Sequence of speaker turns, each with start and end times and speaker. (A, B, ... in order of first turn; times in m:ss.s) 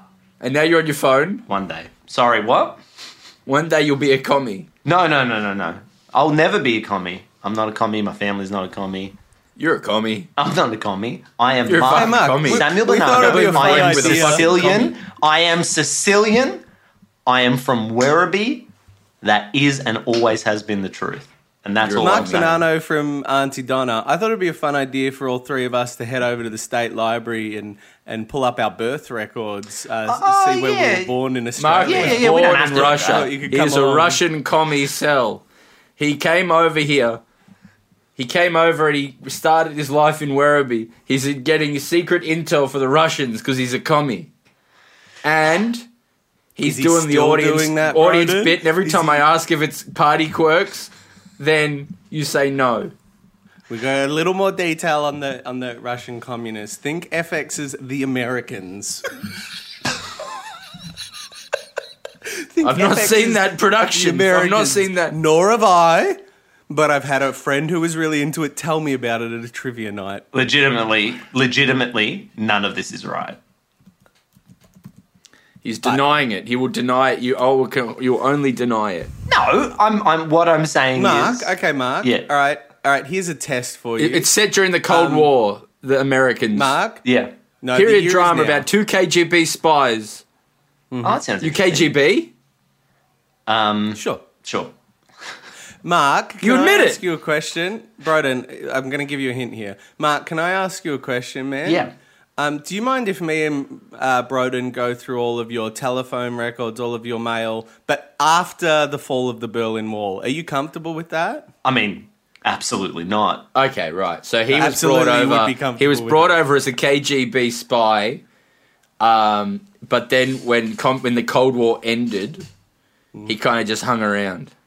0:00.4-0:01.4 A
0:01.5-0:02.8 B
0:03.4-0:04.7 A
0:04.8-0:09.1 B
0:09.6-0:10.3 A
0:10.4-0:16.6 B
0:11.7-0:15.0 A
0:11.8-0:14.6 C
0:17.2-0:18.7 B
0:19.2-0:22.6 B
0:21.8-0:22.6 A
0:22.0-0:32.3 C
0:30.1-0:31.1 B
0:31.6-0:35.4 A
0:31.8-0:33.3 B
0:32.9-0:34.2 C
0:36.0-0:37.2 A
0:38.2-0:44.3 A
0:45.2-0:45.8 A
0:46.6-0:52.9 A
0:46.6-0:49.2 C
0:53.7-0:59.0 C
1:02.5-1:10.2 C
1:02.6-1:05.2 A
1:10.3-1:13.4 B
1:15.6-1:19.1 A
1:19.3-1:22.3 B
1:20.9-1:24.3 C
1:24.0-1:26.7 A
1:24.9-1:25.3 C
1:26.5-1:27.0 C
1:27.0-1:27.3 B
1:27.6-1:28.6 C
1:27.7-1:30.2 A
1:30.9-1:31.2 C
1:31.0-1:31.9 B
1:31.4-1:32.3 A
1:33.5-1:34.7 B
1:33.9-1:34.2 C
1:35.8-1:41.8 C
1:36.4-1:37.0 A
1:41.6-1:41.9 B
1:42.4-1:51.5 C
1:51.6-1:53.5 B
1:53.5-1:58.2 A
1:54.5-1:56.4 C
1:59.0-2:02.4 A
2:03.3-2:04.5 A